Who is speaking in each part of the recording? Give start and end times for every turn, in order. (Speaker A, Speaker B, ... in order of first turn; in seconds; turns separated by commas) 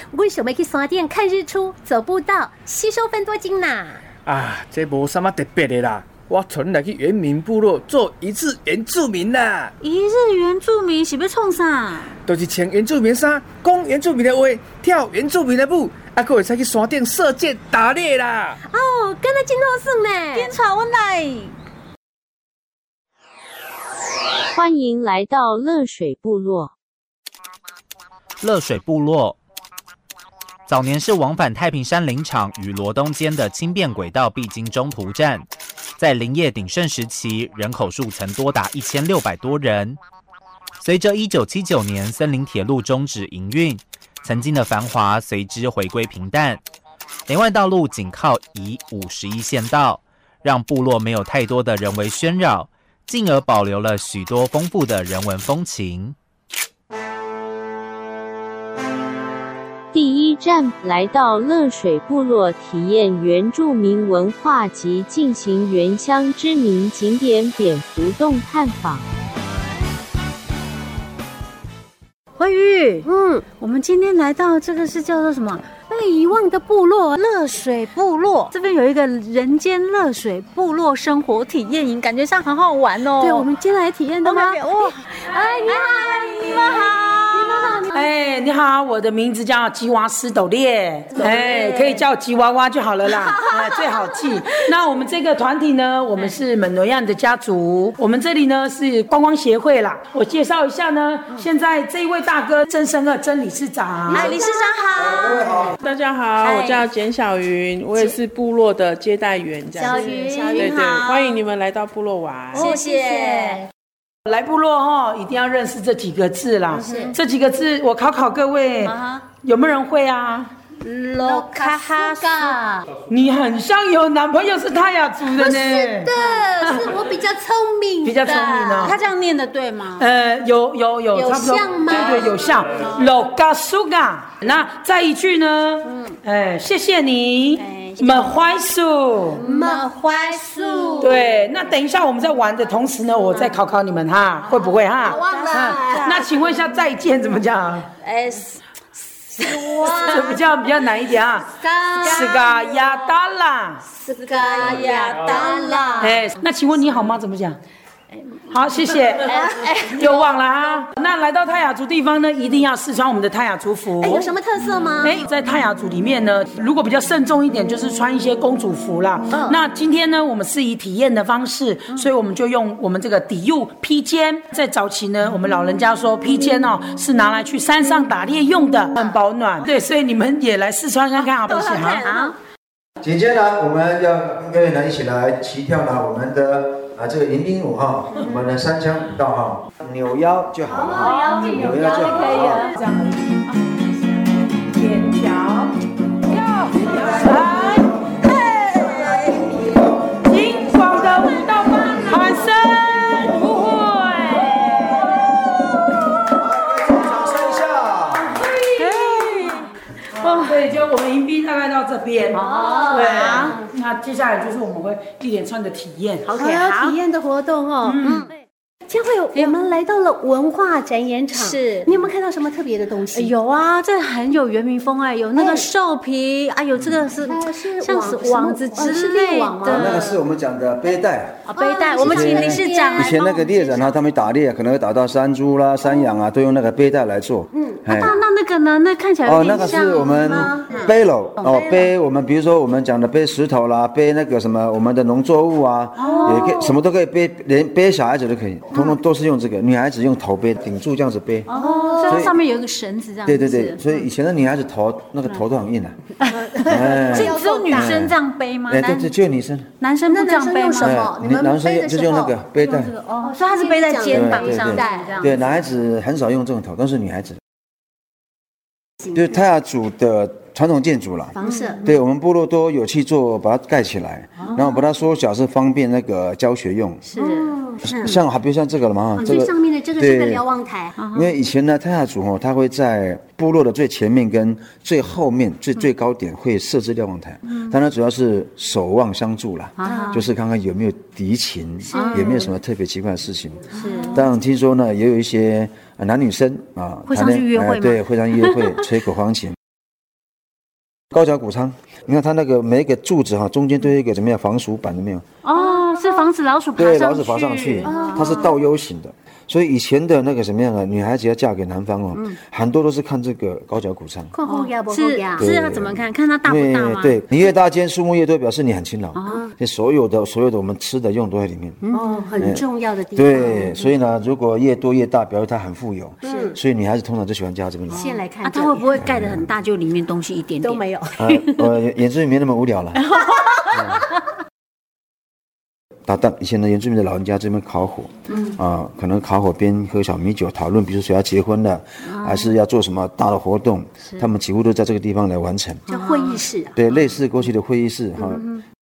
Speaker A: 0.1-4.0, Speaker B: 4.3-9.7, Speaker C: 9.8-12.2, Speaker B: 12.3-18.6, Speaker A: 18.6-20.5, Speaker C: 20.3-21.5, Speaker D: 24.5-26.7, Speaker E: 28.4-29.4, Speaker E: 30.7-35.5, Speaker E: 36.0-40.0, Speaker E: 40.8-46.6, Speaker E: 47.3-56.2, Speaker D: 59.9-69.0, Speaker C: 72.4-75.7, Speaker A: 73.0-73.4, Speaker A: 75.9-77.3, Speaker C: 77.2-83.5, Speaker A: 83.2-88.1, Speaker C: 84.2-87.8, Speaker F: 87.9-104.2, Speaker C: 91.2-92.0, Speaker A: 91.3-91.7, Speaker A: 93.2-94.2, Speaker C: 104.1-105.6, Speaker A: 104.1-104.7, Speaker G: 105.0-105.8, Speaker A: 105.3-105.8, Speaker H: 105.8-112.7, Speaker C: 106.4-106.9, Speaker A: 109.7-111.2, Speaker C: 109.8-111.4, Speaker A: 112.5-113.7, Speaker C: 112.5-113.7, Speaker F: 114.2-120.5, Speaker C: 116.7-117.2, Speaker A: 116.7-117.2, Speaker C: 118.8-119.3, Speaker C: 120.8-122.9, Speaker A: 121.2-122.6, Speaker F: 123.1-126.8, Speaker A: 125.2-128.9, Speaker C: 126.2-126.7, Speaker F: 128.0-129.0, Speaker C: 128.2-130.1, Speaker F: 130.0-139.4, Speaker A: 131.1-132.6, Speaker C: 131.9-133.1, Speaker C: 135.8-136.2, Speaker C: 137.6-138.3, Speaker C: 139.3-141.3, Speaker A: 139.4-141.3, Speaker F: 141.0-147.9, Speaker C: 144.4-146.6, Speaker A: 145.0-146.3, Speaker C: 148.1-148.6, Speaker C: 149.4-150.4, Speaker A: 149.5-150.4, Speaker F: 150.1-151.5, Speaker A: 151.3-152.6, Speaker C: 152.0-153.1, Speaker F: 152.1-153.8, Speaker A: 153.9-156.2, Speaker C: 154.4-156.2, Speaker F: 156.0-157.6, Speaker F: 158.5-159.3, Speaker C: 158.8-160.0, Speaker A: 159.3-160.2, Speaker F: 159.9-164.3, Speaker A: 164.0-165.3, Speaker F: 165.0-182.0, Speaker A: 181.6-182.2, Speaker C: 181.6-182.4, Speaker G: 183.0-192.7, Speaker C: 190.7-192.8, Speaker A: 190.9-192.3, Speaker F: 192.7-193.3, Speaker C: 193.5-193.8, Speaker F: 194.7-195.7, Speaker F: 196.3-197.9, Speaker C: 197.1-197.8, Speaker F: 200.2-204.9, Speaker C: 203.5-204.7, Speaker G: 206.3-208.4, Speaker C: 208.8-210.6, Speaker F: 210.2-216.2, Speaker C: 212.3-213.7, Speaker A: 212.5-213.7, Speaker A: 216.3-218.3, Speaker C: 216.3-217.0, Speaker C: 218.0-218.3, Speaker A: 218.9-223.3, Speaker C: 219.3-219.6, Speaker C: 221.3-222.0, Speaker C: 223.1-230.2, Speaker A: 225.4-225.7, Speaker A: 227.1-230.2, Speaker G: 229.7-231.4, Speaker C: 231.5-233.4, Speaker A: 231.6-234.0, Speaker G: 232.0-238.2, Speaker A: 237.5-238.1, Speaker C: 237.9-241.6, Speaker G: 239.2-251.5, Speaker A: 239.3-240.9, Speaker A: 241.5-241.9, Speaker C: 246.0-246.8, Speaker A: 246.0-246.6, Speaker C: 251.5-254.1, Speaker A: 251.6-252.3, Speaker G: 252.1-252.4, Speaker G: 253.3-256.0, Speaker C: 256.2-259.1, Speaker A: 256.3-257.9, Speaker G: 256.6-259.7, Speaker C: 259.8-261.0, Speaker A: 260.1-262.4, Speaker G: 260.8-262.9, Speaker C: 262.6-265.4, Speaker A: 263.2-265.4, Speaker G: 264.1-267.4, Speaker A: 269.0-269.4, Speaker G: 269.1-277.1, Speaker A: 271.4-271.9, Speaker C: 271.4-271.8, Speaker A: 277.1-278.1, Speaker C: 277.2-277.5, Speaker G: 277.8-280.5, Speaker A: 279.2-281.0, Speaker C: 281.0-281.4, Speaker G: 281.1-299.6, Speaker C: 287.5-287.7, Speaker C: 289.8-290.3, Speaker A: 289.9-290.2, Speaker A: 291.8-292.5, Speaker C: 291.9-292.5, Speaker A: 293.7-294.2, Speaker C: 293.7-294.3, Speaker C: 297.1-298.8, Speaker G: 301.1-305.2, Speaker C: 305.4-308.5, Speaker A: 305.6-306.2, Speaker G: 306.8-314.3, Speaker A: 307.9-308.5, Speaker A: 314.3-315.5, Speaker C: 314.4-317.2, Speaker G: 315.4-321.8, Speaker C: 319.1-319.5, Speaker C: 321.8-322.3, Speaker A: 321.9-323.9, Speaker G: 322.4-328.1, Speaker A: 326.2-326.6, Speaker C: 326.2-326.5, Speaker C: 327.9-331.5, Speaker A: 327.9-328.9, Speaker G: 328.9-329.5, Speaker A: 330.6-331.2, Speaker G: 331.2-333.1, Speaker C: 333.1-334.0, Speaker G: 333.7-334.1, Speaker G: 336.1-345.9, Speaker C: 338.3-338.6, Speaker C: 342.0-342.5, Speaker C: 345.9-347.2, Speaker A: 345.9-346.8, Speaker G: 346.8-348.5, Speaker C: 348.2-348.6